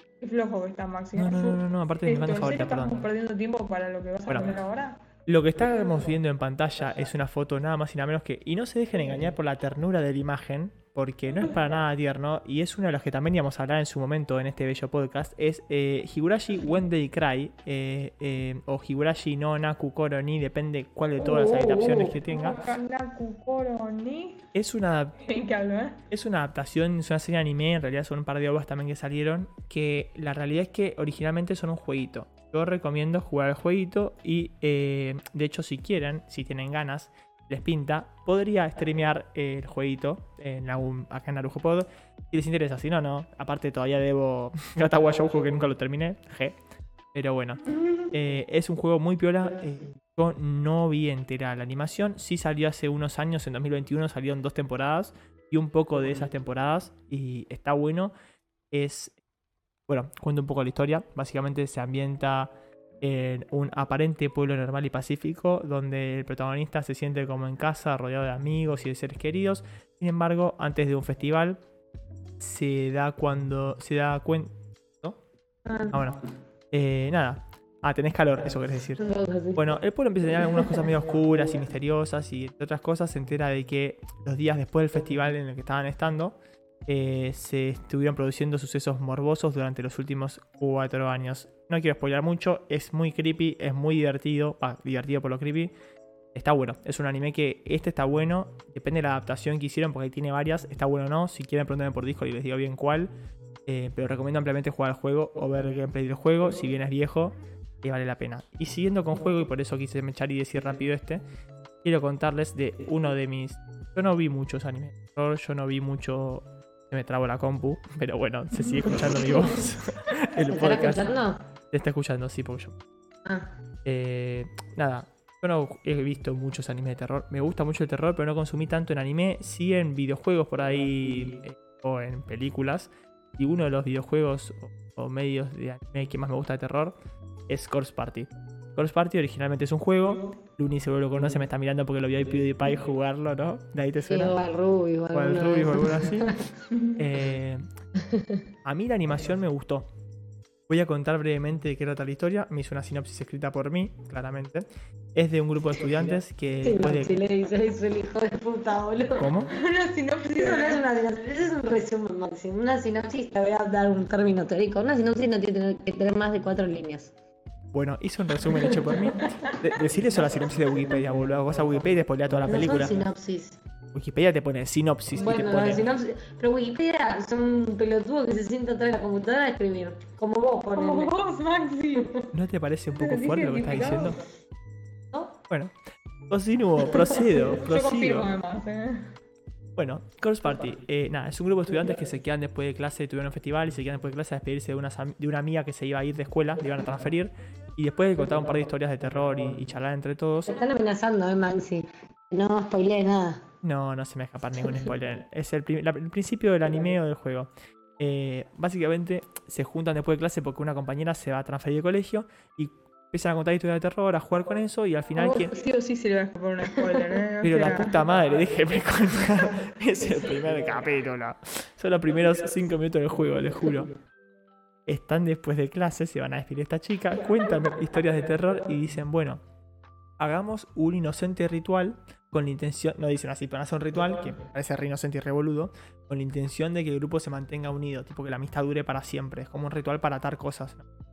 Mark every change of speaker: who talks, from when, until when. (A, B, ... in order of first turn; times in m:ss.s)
0:00.2-0:05.0 A
0:01.1-0:03.0 B
0:04.3-0:04.6 B
0:05.3-0:22.7 B
0:21.2-0:24.4 A
0:24.6-0:25.2 B
0:25.2-0:26.0 A
0:26.1-0:46.6 B
0:47.1-0:58.1 B
0:58.7-0:59.2 B
0:59.9-1:11.6 B
1:12.4-1:15.2 B
1:15.7-1:16.0 C
1:15.9-1:19.0 B
1:19.0-1:19.7 C
1:19.6-1:35.7 B
1:36.3-1:43.1 B
1:43.7-1:51.2 B
1:51.8-2:01.1 B
2:00.5-2:01.4 C
2:01.7-2:02.8 B
2:03.2-2:03.5 C
2:03.8-2:17.0 B
2:17.5-2:24.4 B
2:24.0-2:26.4 C
2:25.1-2:26.3 B
2:27.0-2:27.6 B
2:28.0-2:28.4 C
2:28.6-2:29.9 B
2:30.7-2:37.2 B
2:36.6-2:39.3 C
2:39.2-2:39.5 B
2:39.5-2:40.8 A
2:40.3-2:47.1 C
2:47.7-2:53.0 B
2:52.5-2:53.6 C
2:53.9-2:55.9 B
2:55.1-3:01.2 C
3:00.8-3:02.2 A
3:02.3-3:04.2 B
3:02.9-3:04.2 A
3:05.5-3:05.7 B
3:06.3-3:08.3 B
3:07.0-3:09.1 A
3:09.8-3:20.6 B
3:20.5-3:23.4 C
3:23.6-3:35.5 B
3:35.2-3:38.0 A
3:37.4-3:43.9 B
3:44.9-3:49.4 B
3:50.2-4:00.8 B